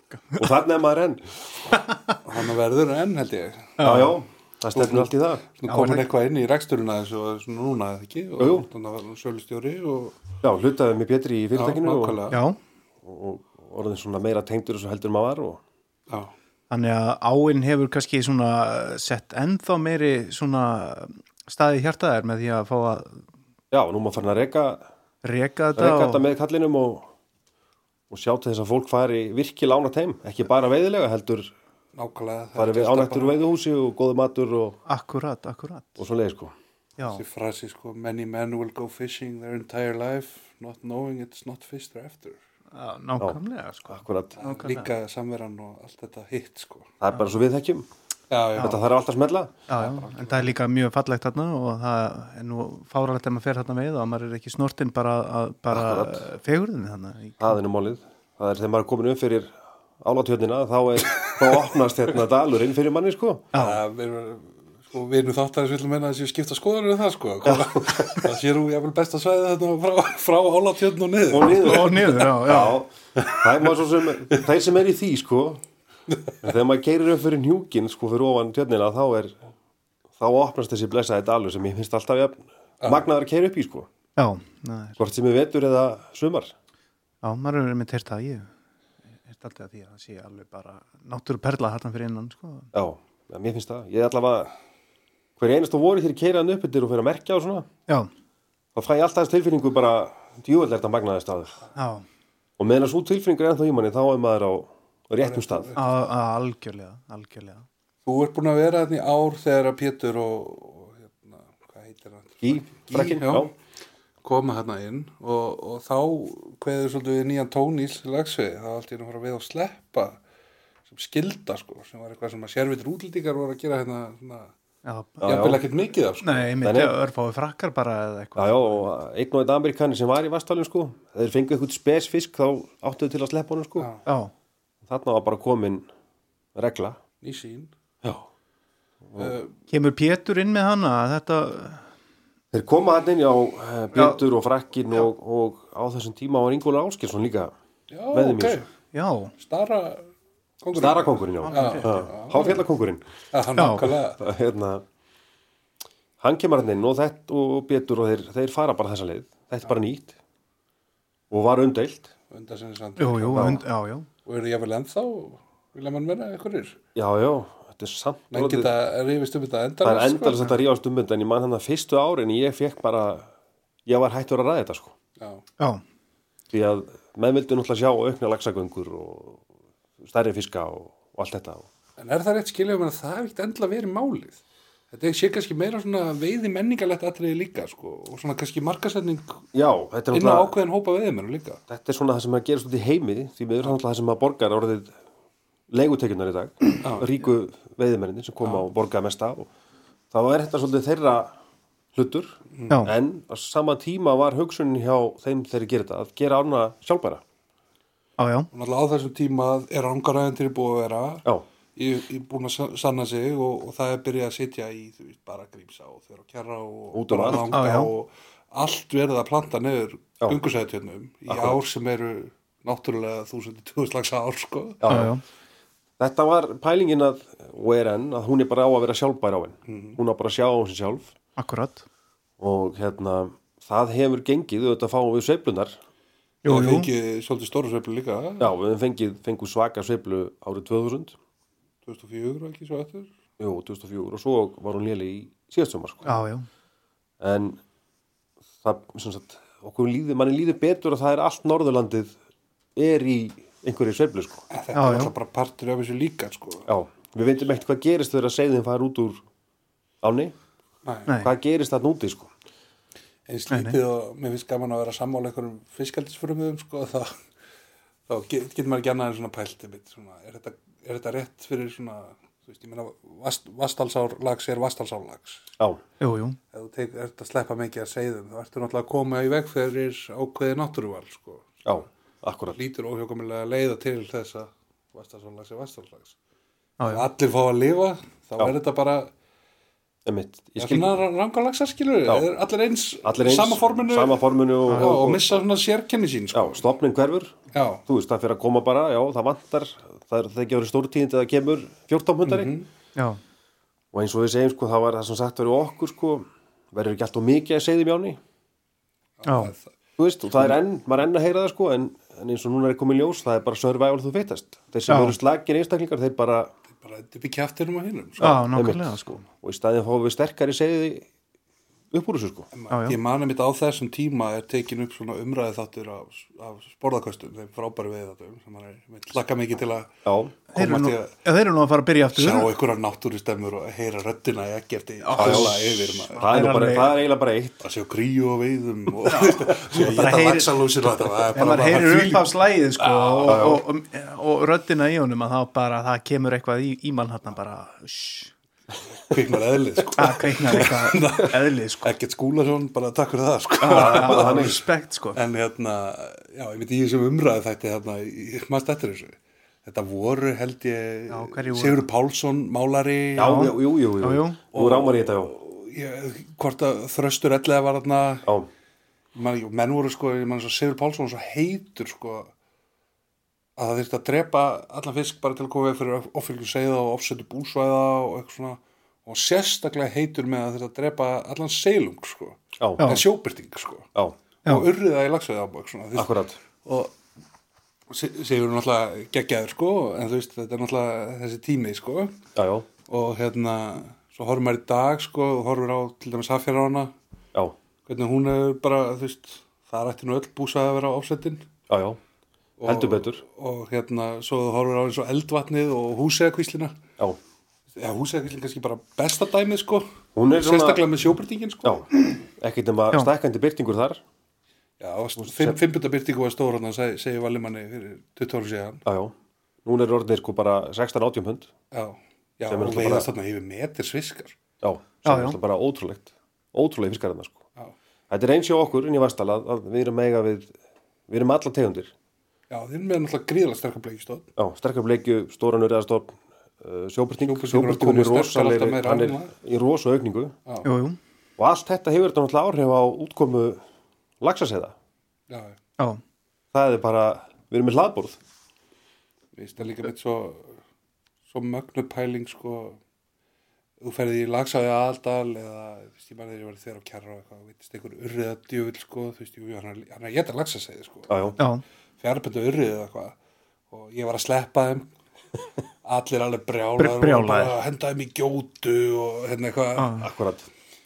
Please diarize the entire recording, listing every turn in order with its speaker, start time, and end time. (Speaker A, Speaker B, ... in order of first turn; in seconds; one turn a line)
Speaker A: 0.4-1.6
Speaker B: 1.9-2.2
Speaker C: 2.2-3.8
Speaker B: 3.8-4.2
Speaker A: 3.8-5.4
Speaker C: 4.8-10.2
Speaker B: 5.7-6.1
Speaker A: 8.4-8.7
Speaker A: 10.4-12.2
Speaker C: 11.6-12.4
Speaker B: 12.3-12.6
Speaker A: 13.0-15.6
Speaker C: 16.1-16.3
Speaker B: 16.7-23.2
Speaker A: 23.7-24.9
Speaker B: 25.2-26.3
Speaker A: 25.8-27.1
Speaker A: 28.1-31.5
Speaker C: 31.9-33.4
Speaker A: 32.5-34.8
Speaker B: 34.9-36.0
Speaker A: 36.0-36.5
Speaker B: 37.0-37.2
Speaker C: 37.1-42.4
Speaker B: 42.7-44.9
Speaker A: 43.2-44.4
Speaker C: 44.4-46.9
Speaker A: 47.0-47.9
Speaker C: 48.3-48.9
Speaker A: 48.6-49.5
Speaker B: 49.7-57.6
Speaker C: 49.7-50.5
Speaker A: 55.7-56.3
Speaker A: 57.4-63.5
Speaker B: 63.5-63.8
Speaker C: 63.5-72.4
Speaker A: 67.4-68.3
Speaker A: 71.3-75.6
Speaker B: 71.5-72.8
Speaker C: 73.2-73.5
Speaker A: 76.4-79.4
Speaker A: 80.2-83.9
Speaker C: 82.8-83.1
Speaker B: 84.2-85.0
Speaker A: 85.0-86.5
Speaker B: 87.2-88.5
Speaker B: 89.2-92.7
Speaker A: 92.7-94.5
Speaker A: 95.4-97.7
Speaker A: 98.8-101.6
Speaker B: 101.8-102.0
Speaker A: 102.6-105.7
Speaker C: 105.2-106.0
Speaker B: 105.8-107.7
Speaker C: 108.0-113.5
Speaker A: 112.4-113.5
Speaker C: 114.2-120.2
Speaker C: 120.9-124.5
Speaker B: 124.8-125.4
Speaker A: 125.2-125.6
Speaker C: 125.2-126.5
Speaker B: 126.2-128.8
Speaker A: 126.6-127.0
Speaker A: 128.4-133.9
Speaker C: 133.8-134.0
Speaker B: 134.1-134.3
Speaker A: 134.8-135.9
Speaker A: 136.6-137.0
Speaker C: 137.2-137.7
Speaker A: 139.1-139.4
Speaker C: 139.2-139.5
Speaker B: 139.7-141.8
Speaker A: 142.5-147.5
Speaker B: 143.9-144.2
Speaker C: 147.9-148.7
Speaker A: 148.1-148.6
Speaker B: 148.9-149.3
Speaker C: 149.4-150.1
Speaker C: 150.6-152.6
Speaker A: 150.7-153.0
Speaker B: 151.4-152.0
Speaker C: 153.3-154.2
Speaker B: 153.6-153.9
Speaker A: 154.2-154.8
Speaker A: 156.2-160.2
Speaker A: 161.3-162.1
Speaker C: 162.3-163.6
Speaker B: 163.0-164.1
Speaker A: 163.3-163.6
Speaker C: 164.2-166.8
Speaker A: 166.9-168.7
Speaker C: 168.3-170.6
Speaker A: 169.8-173.3
Speaker A: 173.9-174.9
Speaker C: 175.2-175.4
Speaker A: 176.5-179.4
Speaker A: 180.0-181.7
Speaker C: 182.0-184.4
Speaker C: 184.9-189.4
Speaker A: 189.5-190.5
Speaker C: 190.1-191.6
Speaker A: 191.7-194.9
Speaker A: 195.7-199.5
Speaker C: 196.8-197.1
Speaker A: 200.1-201.4
Speaker A: 201.9-207.2
Speaker C: 202.5-202.8
Speaker B: 208.2-208.5
Speaker C: 208.5-211.2
Speaker C: 211.8-224.8
Speaker A: 216.9-217.5
Speaker B: 217.3-217.9
Speaker A: 221.3-221.6
Speaker A: 224.8-225.1
Speaker B: 224.9-225.2
Speaker A: 226.0-231.1
Speaker C: 229.7-230.0
Speaker B: 231.4-231.8
Speaker A: 232.4-235.8
Speaker B: 236.4-236.9
Speaker C: 236.4-238.5
Speaker A: 238.4-241.2
Speaker C: 241.9-243.1
Speaker A: 243.4-246.1
Speaker B: 246.1-246.5
Speaker A: 247.2-247.6
Speaker A: 248.6-252.1
Speaker A: 252.8-254.4
Speaker C: 254.5-256.7
Speaker B: 254.7-255.1
Speaker A: 256.7-259.2
Speaker A: 260.0-260.4
Speaker C: 260.8-261.1
Speaker B: 261.1-261.3
Speaker A: 261.2-262.3
Speaker C: 263.3-267.1
Speaker B: 263.5-263.8
Speaker C: 268.1-275.4
Speaker B: 276.0-276.4
Speaker C: 276.5-281.6
Speaker A: 281.6-282.6
Speaker C: 282.5-286.2
Speaker B: 286.8-287.1
Speaker C: 286.8-289.1
Speaker A: 290.1-291.0
Speaker C: 290.6-296.6
Speaker A: 293.0-295.4
Speaker A: 296.3-297.4
Speaker C: 297.5-297.8
Speaker A: 297.9-302.5
Speaker C: 302.3-302.7
Speaker A: 303.9-308.2
Speaker C: 309.2-309.7
Speaker B: 309.3-309.5
Speaker A: 310.0-316.5
Speaker B: 314.9-315.2
Speaker C: 316.8-318.4
Speaker B: 318.2-319.2
Speaker A: 318.2-321.1
Speaker A: 321.9-322.5
Speaker C: 322.5-329.9
Speaker B: 322.7-323.0
Speaker A: 330.1-330.4
Speaker C: 330.5-331.1
Speaker B: 330.6-332.5
Speaker C: 332.1-336.3
Speaker B: 335.0-337.0
Speaker A: 335.2-337.6
Speaker C: 337.6-343.5
Speaker B: 339.1-340.6
Speaker B: 341.4-348.3
Speaker A: 343.3-343.6
Speaker C: 349.1-354.6
Speaker B: 350.0-351.9
Speaker B: 353.6-355.2
Speaker A: 353.7-354.6
Speaker C: 355.1-363.5
Speaker B: 361.1-361.8
Speaker A: 363.2-365.3
Speaker B: 363.2-364.4
Speaker C: 364.5-368.3
Speaker C: 369.1-372.3
Speaker C: 373.6-383.9
Speaker A: 382.6-382.9
Speaker C: 384.4-386.1
Speaker A: 385.9-386.4
Speaker C: 386.6-386.9
Speaker C: 387.9-392.2
Speaker A: 392.4-392.7
Speaker C: 392.9-396.9
Speaker C: 397.9-401.5
Speaker A: 401.7-402.0
Speaker C: 402.6-406.8
Speaker A: 402.6-403.2
Speaker C: 407.8-411.9
Speaker A: 410.1-410.8
Speaker A: 411.6-414.0
Speaker C: 414.8-418.8
Speaker A: 415.2-415.6
Speaker A: 418.9-419.1
Speaker A: 419.6-421.5
Speaker C: 421.7-424.4
Speaker A: 422.5-423.1
Speaker A: 424.6-427.4
Speaker B: 425.1-425.4
Speaker A: 428.1-430.5
Speaker A: 431.1-431.9
Speaker C: 432.5-434.3
Speaker A: 434.4-440.4
Speaker C: 437.2-439.3
Speaker B: 440.6-441.0
Speaker A: 441.4-443.6
Speaker A: 444.2-444.8
Speaker C: 445.3-445.6
Speaker A: 446.5-448.2
Speaker C: 449.4-450.6
Speaker C: 451.3-452.8
Speaker C: 453.8-461.1
Speaker A: 461.1-461.4
Speaker B: 461.4-461.6
Speaker C: 462.0-463.1
Speaker C: 463.7-464.9
Speaker C: 465.8-470.0
Speaker B: 466.8-467.6
Speaker B: 469.8-470.1
Speaker A: 470.0-470.5